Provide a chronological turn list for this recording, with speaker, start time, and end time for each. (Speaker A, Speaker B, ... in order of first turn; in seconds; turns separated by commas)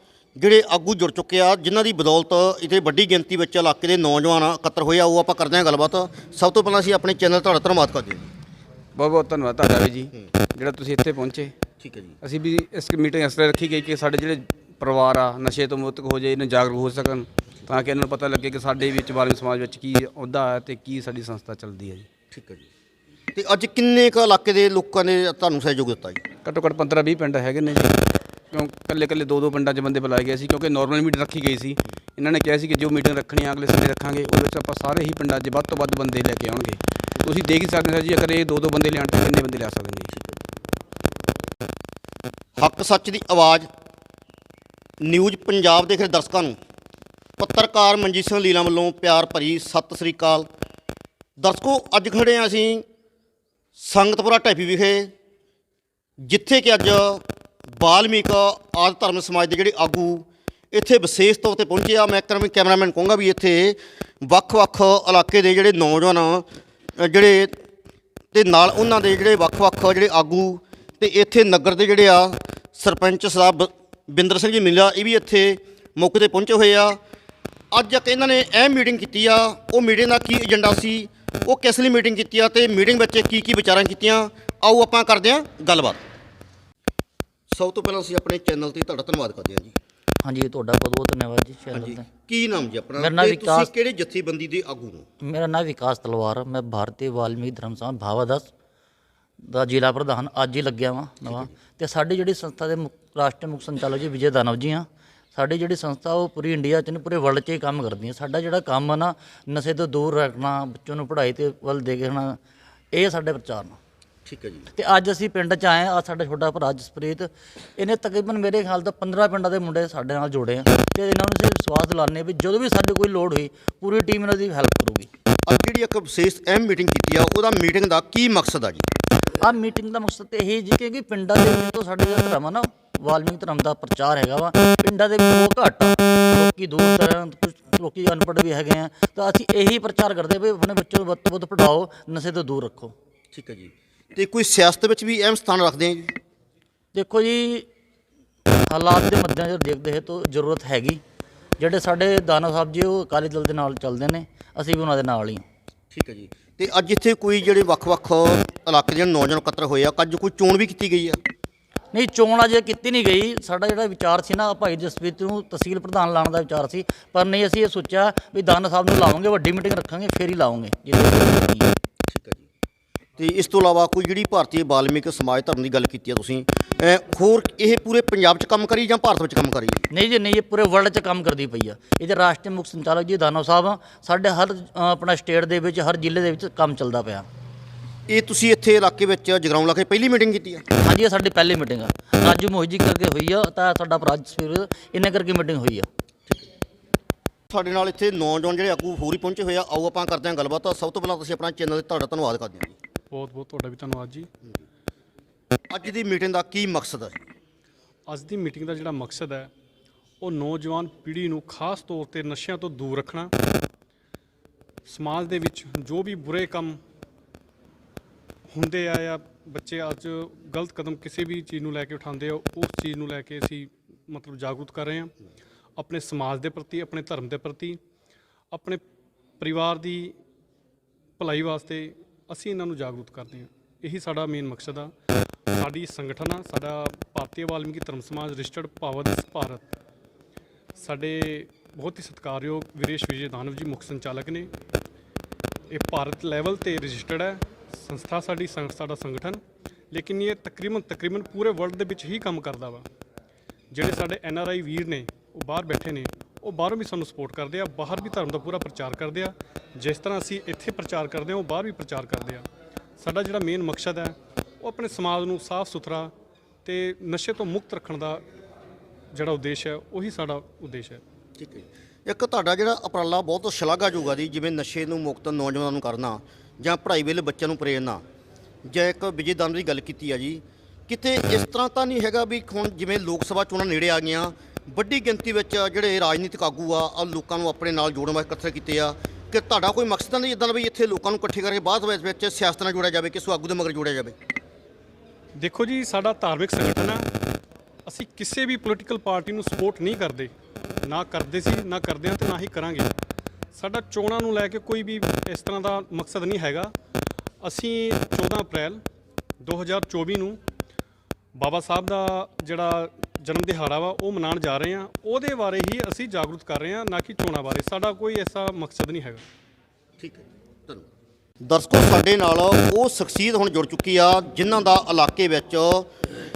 Speaker A: 0.4-8.3, Speaker B: 8.9-11.5, Speaker A: 11.8-12.2, Speaker B: 12.2-22.1, Speaker A: 22.3-22.7, Speaker A: 23.3-26.2, Speaker B: 26.4-28.0, Speaker B: 28.5-40.1, Speaker A: 42.6-43.7, Speaker A: 45.0-46.6, Speaker A: 47.4-50.5, Speaker A: 51.4-52.8, Speaker A: 53.8-55.1, Speaker A: 56.2-57.2, Speaker A: 57.8-66.5, Speaker A: 67.0-67.6, Speaker A: 68.3-77.0, Speaker A: 77.7-86.0, Speaker A: 87.5-89.8, Speaker C: 90.2-92.0, Speaker A: 91.7-95.0, Speaker C: 93.0-93.7, Speaker C: 95.2-98.5, Speaker C: 99.4-112.4, Speaker A: 101.2-101.5, Speaker C: 112.9-113.8, Speaker A: 114.2-114.7, Speaker C: 114.7-125.1, Speaker A: 125.5-128.9, Speaker C: 129.4-142.9, Speaker A: 143.3-146.1, Speaker C: 146.9-147.7, Speaker C: 148.7-151.0, Speaker C: 151.6-155.4, Speaker A: 155.9-161.2, Speaker C: 161.9-171.7, Speaker A: 172.1-172.5, Speaker A: 173.2-179.8, Speaker C: 179.9-187.2, Speaker A: 188.1-190.6, Speaker C: 190.8-195.9, Speaker A: 197.5-202.8, Speaker D: 203.1-204.3, Speaker A: 205.7-207.2, Speaker D: 208.1-209.5, Speaker D: 210.2-213.3, Speaker D: 214.8-216.8, Speaker D: 218.5-225.1, Speaker D: 225.8-227.8, Speaker D: 228.5-228.8, Speaker D: 229.4-230.2, Speaker D: 231.2-234.9, Speaker D: 235.5-239.6, Speaker D: 240.8-244.5, Speaker D: 245.7-249.4, Speaker D: 249.9-252.8, Speaker D: 253.7-262.4, Speaker D: 263.0-266.1, Speaker D: 266.6-268.2, Speaker D: 269.1-271.0, Speaker A: 271.4-278.0, Speaker A: 278.6-294.1, Speaker D: 295.4-297.1, Speaker D: 297.9-300.3, Speaker D: 300.8-302.9, Speaker D: 303.5-306.7, Speaker D: 307.4-308.8, Speaker D: 309.4-310.4, Speaker D: 311.4-319.2, Speaker A: 320.0-320.9, Speaker A: 321.4-325.9